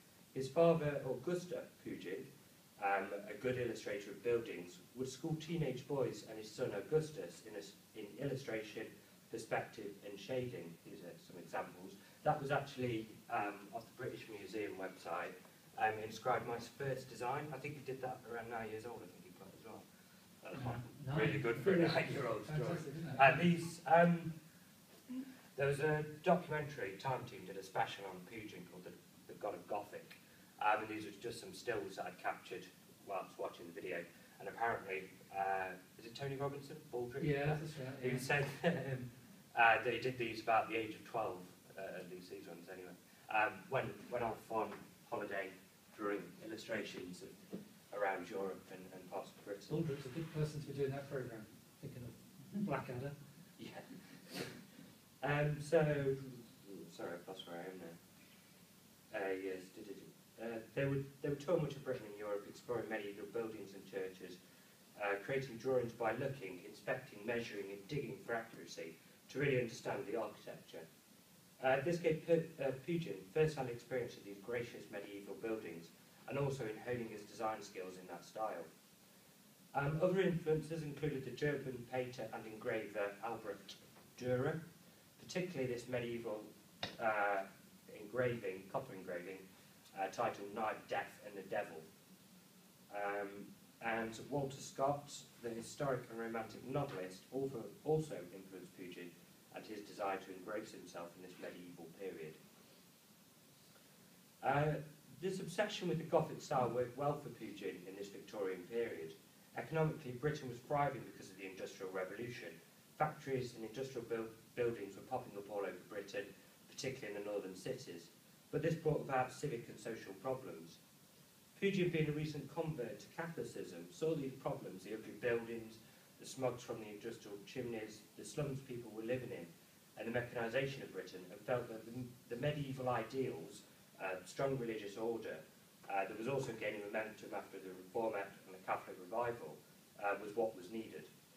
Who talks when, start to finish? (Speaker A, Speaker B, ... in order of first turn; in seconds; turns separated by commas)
Speaker A: 0.3-19.8, Speaker A: 20.4-24.3, Speaker B: 20.6-23.4, Speaker A: 25.5-47.4, Speaker B: 37.2-38.2, Speaker A: 47.9-49.8, Speaker B: 49.7-53.1, Speaker A: 53.6-54.6, Speaker A: 55.2-58.0, Speaker A: 59.1-64.4, Speaker A: 65.0-70.8, Speaker A: 71.6-78.7, Speaker A: 79.7-84.6, Speaker A: 85.2-91.8, Speaker A: 92.9-102.4, Speaker A: 104.4-120.8, Speaker A: 121.5-141.1